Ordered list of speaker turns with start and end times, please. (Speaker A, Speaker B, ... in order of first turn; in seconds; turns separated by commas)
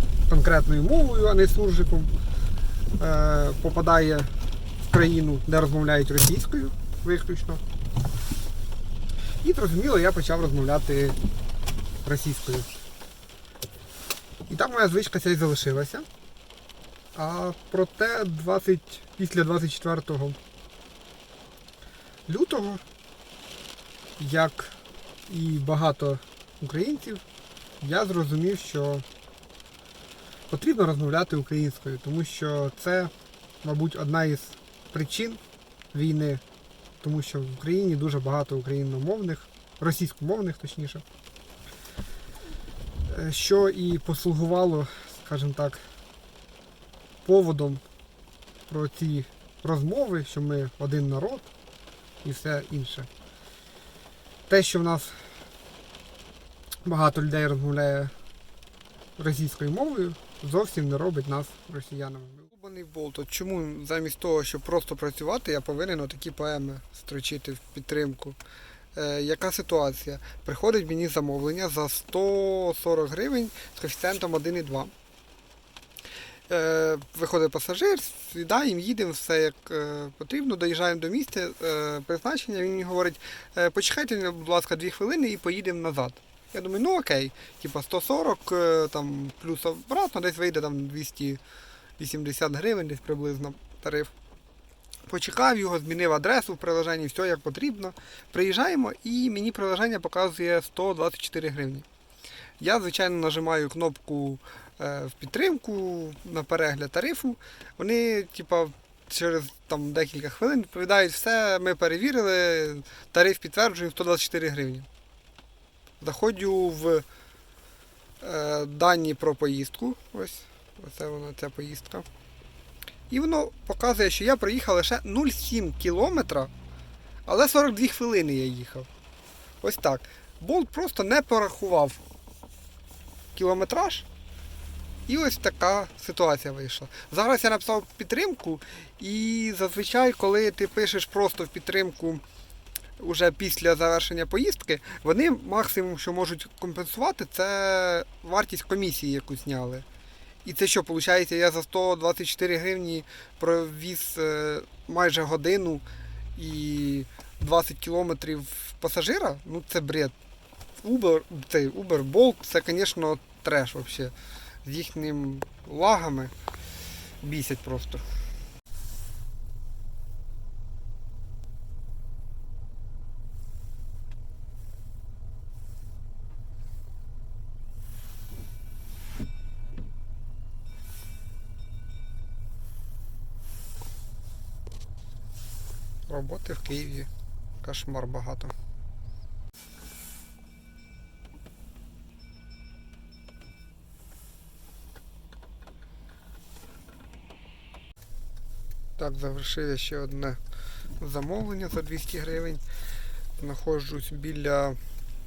Speaker A: 0.3-2.1, Speaker A: 3.0-4.3, Speaker A: 4.8-7.6, Speaker A: 9.4-11.2, Speaker A: 12.0-12.8, Speaker A: 14.5-16.1, Speaker A: 17.1-20.4, Speaker A: 22.3-22.8, Speaker A: 24.2-24.8, Speaker A: 25.3-27.2, Speaker A: 27.8-29.0, Speaker A: 30.5-33.1, Speaker A: 33.6-35.4, Speaker A: 35.9-36.4, Speaker A: 37.0-41.0, Speaker A: 43.1-45.8, Speaker A: 47.2-47.8, Speaker A: 48.7-51.5, Speaker A: 52.2-53.1, Speaker A: 54.5-55.1, Speaker A: 56.8-58.1, Speaker A: 59.2-68.4, Speaker A: 68.9-74.9, Speaker A: 76.5-91.4, Speaker A: 92.0-94.1, Speaker A: 95.1-101.8, Speaker A: 102.6-114.9, Speaker A: 116.0-117.0, Speaker A: 118.2-122.0, Speaker A: 123.1-126.5, Speaker A: 127.2-128.9, Speaker A: 129.6-132.0, Speaker A: 133.3-134.1, Speaker A: 135.1-142.2, Speaker A: 143.0-149.8, Speaker A: 150.4-155.8, Speaker A: 156.3-160.2, Speaker A: 160.8-164.1, Speaker A: 164.6-166.3, Speaker A: 167.2-168.0, Speaker A: 186.1-187.1, Speaker A: 187.6-188.5, Speaker A: 199.0-200.4, Speaker A: 201.0-202.6, Speaker A: 203.4-204.8